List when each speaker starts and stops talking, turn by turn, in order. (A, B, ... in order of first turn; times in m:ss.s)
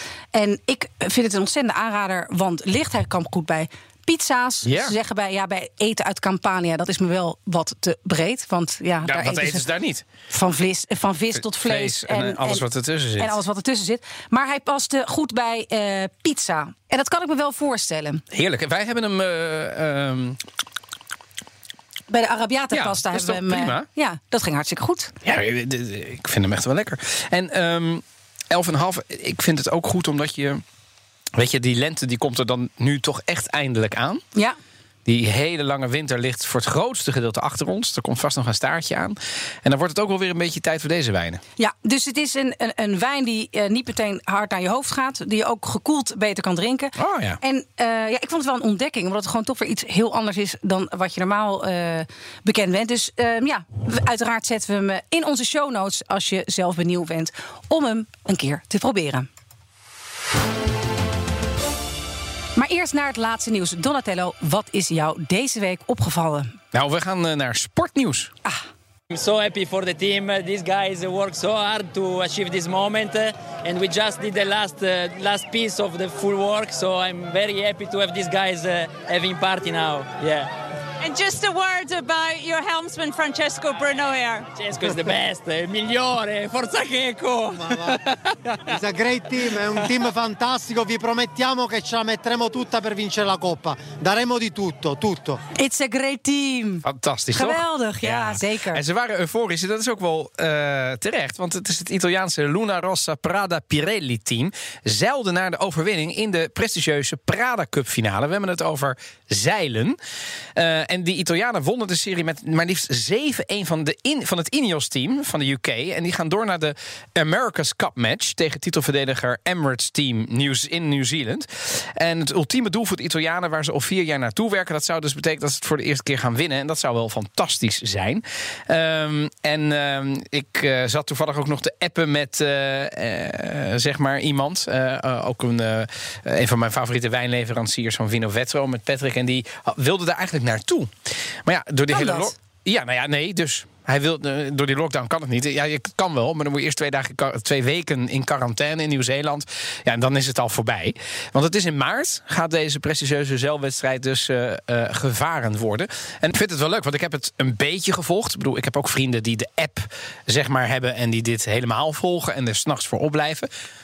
0:00.3-0:09.6 A
0:04.6-0:04.9 B
0:09.0-0:10.1 B
0:10.3-0:12.6 A
0:11.4-0:13.4 B
0:13.2-0:18.2 A
0:18.3-0:20.4 B
0:22.1-0:25.1 A
0:22.7-0:23.9 B
0:25.2-0:30.6 B
0:31.4-0:34.2 B
0:35.1-0:41.4 B
0:41.6-0:59.3 A
0:47.0-0:47.4 B
1:02.6-1:06.6 A
1:06.7-1:08.3 B
1:09.1-1:20.5 C
1:21.0-1:24.5 D
1:24.6-1:28.6 C
1:27.7-1:28.0 E
1:28.6-1:35.4 E
1:29.5-1:30.0 C
1:35.6-1:38.8 A
1:36.8-1:50.0 B
1:50.6-2:20.9 B
2:21.4-2:43.5 B
2:21.9-2:22.3 A